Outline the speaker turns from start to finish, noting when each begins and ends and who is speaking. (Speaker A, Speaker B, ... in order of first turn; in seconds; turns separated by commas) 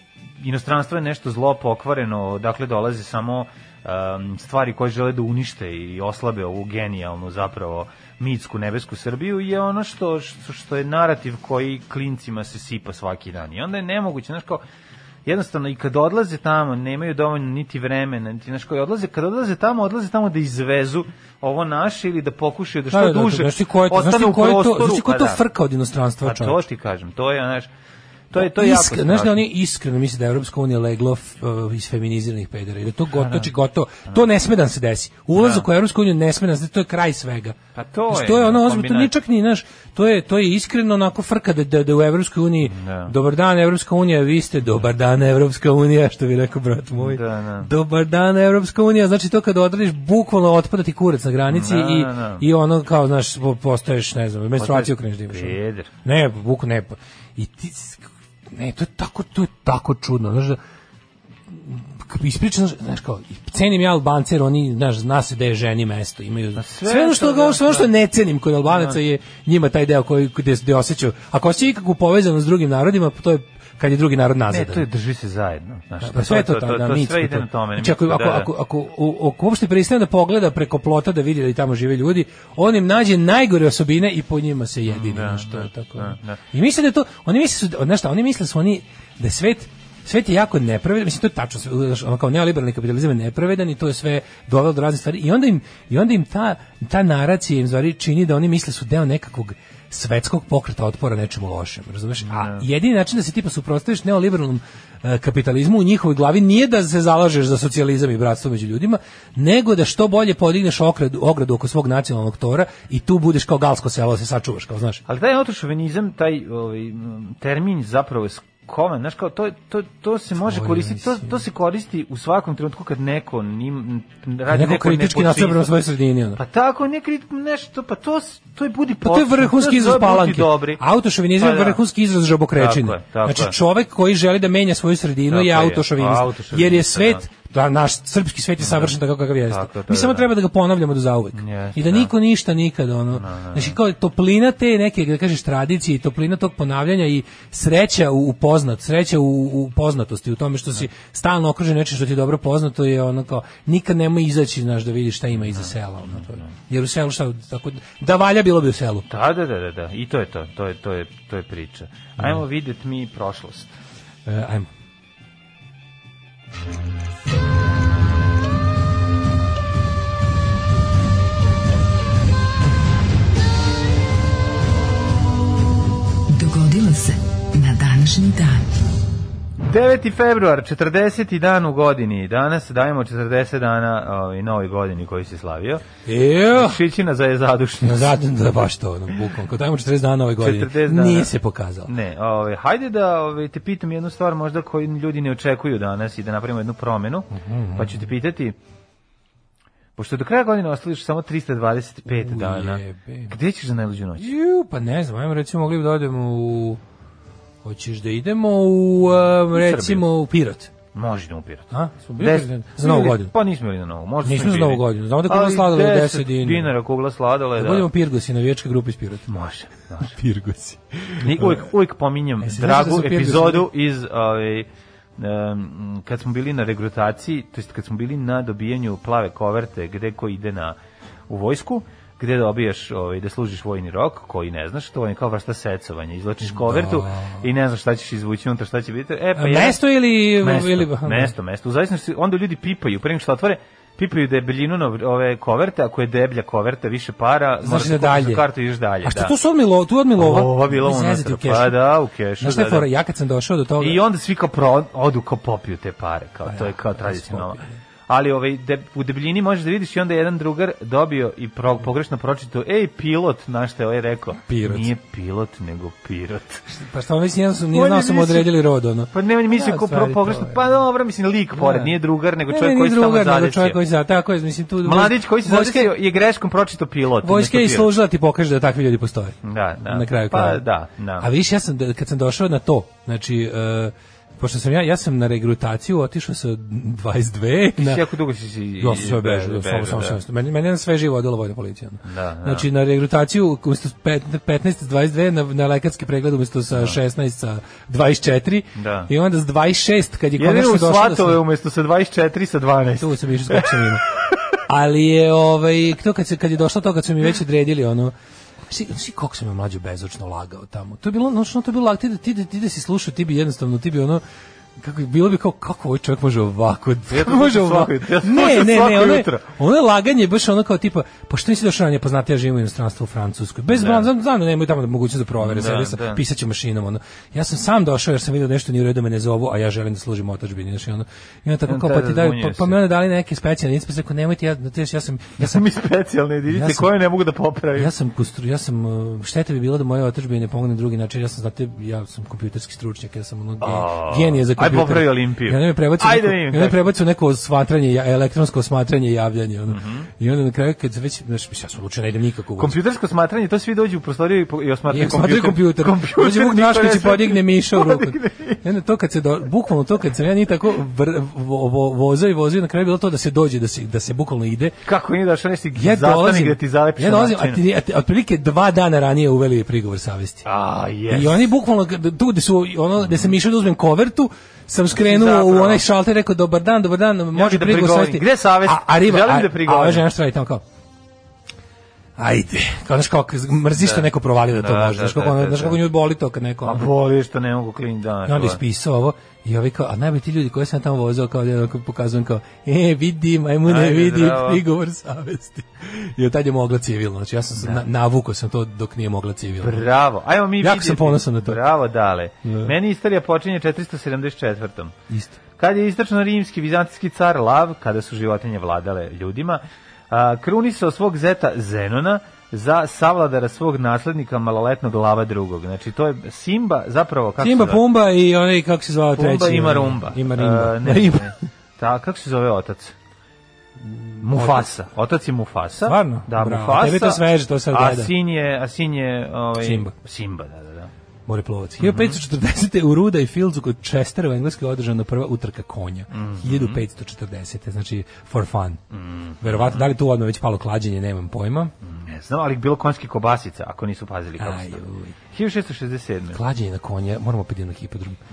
Speaker A: 0.4-14.6, Speaker A: 15.2-25.4, Speaker B: 22.9-26.6, Speaker A: 26.2-27.7, Speaker A: 28.3-29.4, Speaker B: 28.3-37.6, Speaker A: 33.1-33.5, Speaker A: 35.3-35.7, Speaker A: 37.7-39.1, Speaker B: 38.1-60.6, Speaker A: 42.6-43.1, Speaker A: 47.0-47.7, Speaker A: 51.5-52.4, Speaker A: 54.6-55.9, Speaker B: 61.5-74.9, Speaker A: 66.6-67.9, Speaker A: 68.7-69.0, Speaker A: 74.5-78.5, Speaker B: 76.0-115.0, Speaker A: 84.9-86.4, Speaker A: 102.3-102.6, Speaker A: 115.1-125.7, Speaker B: 120.4-121.4, Speaker B: 124.5-126.4, Speaker A: 126.4-130.8, Speaker B: 129.0-159.1, Speaker A: 131.4-131.8, Speaker A: 132.5-133.5, Speaker A: 135.3-137.2, Speaker A: 138.6-138.9, Speaker A: 139.5-140.3, Speaker A: 141.3-142.1, Speaker A: 143.1-143.8, Speaker A: 155.5-156.5, Speaker A: 159.1-163.7, Speaker B: 164.2-164.7, Speaker C: 176.3-178.7, Speaker A: 179.6-185.8, Speaker B: 186.1-186.8, Speaker A: 186.5-188.2, Speaker B: 187.8-191.9, Speaker A: 190.4-191.3, Speaker A: 191.9-198.6, Speaker B: 197.3-198.0, Speaker A: 200.0-204.3, Speaker B: 202.1-203.3, Speaker B: 204.2-206.8, Speaker B: 207.6-210.7, Speaker A: 209.5-210.1, Speaker A: 210.9-217.9, Speaker B: 211.7-213.3, Speaker B: 214.2-216.7, Speaker B: 217.6-219.3, Speaker A: 219.3-220.1, Speaker B: 220.0-221.7, Speaker A: 221.2-230.8, Speaker B: 222.4-223.7, Speaker A: 231.3-239.8, Speaker B: 236.4-237.4, Speaker B: 239.4-241.3, Speaker A: 240.4-249.3, Speaker B: 247.6-248.4, Speaker B: 249.0-251.8, Speaker A: 250.2-252.9, Speaker B: 252.4-254.0, Speaker A: 253.8-266.6, Speaker B: 256.4-257.8, Speaker B: 264.5-264.9, Speaker B: 266.7-270.6, Speaker A: 267.7-268.5, Speaker A: 269.1-273.8, Speaker B: 271.5-271.9, Speaker B: 272.5-275.9, Speaker A: 274.8-277.9, Speaker B: 277.2-280.6, Speaker A: 279.4-281.3, Speaker B: 281.2-288.1, Speaker A: 287.8-290.2, Speaker B: 288.8-301.4, Speaker A: 292.1-292.7, Speaker A: 298.8-299.1, Speaker A: 300.4-304.4, Speaker B: 303.0-304.0, Speaker B: 304.7-308.1, Speaker B: 308.7-314.2, Speaker B: 314.8-335.6, Speaker A: 317.1-319.5, Speaker A: 323.7-324.1, Speaker A: 325.4-326.2, Speaker A: 331.7-332.8, Speaker A: 335.4-337.9, Speaker B: 336.5-336.9, Speaker B: 337.8-352.8, Speaker A: 343.6-346.8, Speaker A: 349.7-350.1, Speaker A: 352.6-358.6, Speaker B: 354.9-364.8, Speaker A: 364.9-367.6, Speaker B: 365.8-370.4, Speaker A: 370.4-371.5, Speaker B: 371.1-380.6, Speaker A: 375.0-375.8, Speaker A: 377.3-380.1, Speaker B: 382.2-386.9, Speaker A: 383.8-385.8, Speaker A: 386.6-388.6, Speaker B: 388.2-399.9, Speaker A: 393.6-394.6, Speaker A: 397.6-397.8, Speaker A: 399.6-404.9, Speaker B: 400.6-401.6, Speaker B: 402.4-402.7, Speaker B: 405.1-405.4, Speaker A: 405.6-417.8, Speaker B: 417.4-421.4, Speaker A: 419.1-422.9, Speaker B: 423.8-424.7, Speaker A: 424.2-430.9, Speaker B: 425.8-428.1, Speaker B: 429.6-429.9, Speaker B: 431.2-438.8, Speaker A: 431.8-432.2, Speaker A: 436.1-436.8, Speaker A: 438.9-439.9, Speaker B: 439.4-441.7, Speaker A: 441.8-446.4, Speaker B: 444.4-445.1, Speaker B: 446.3-448.2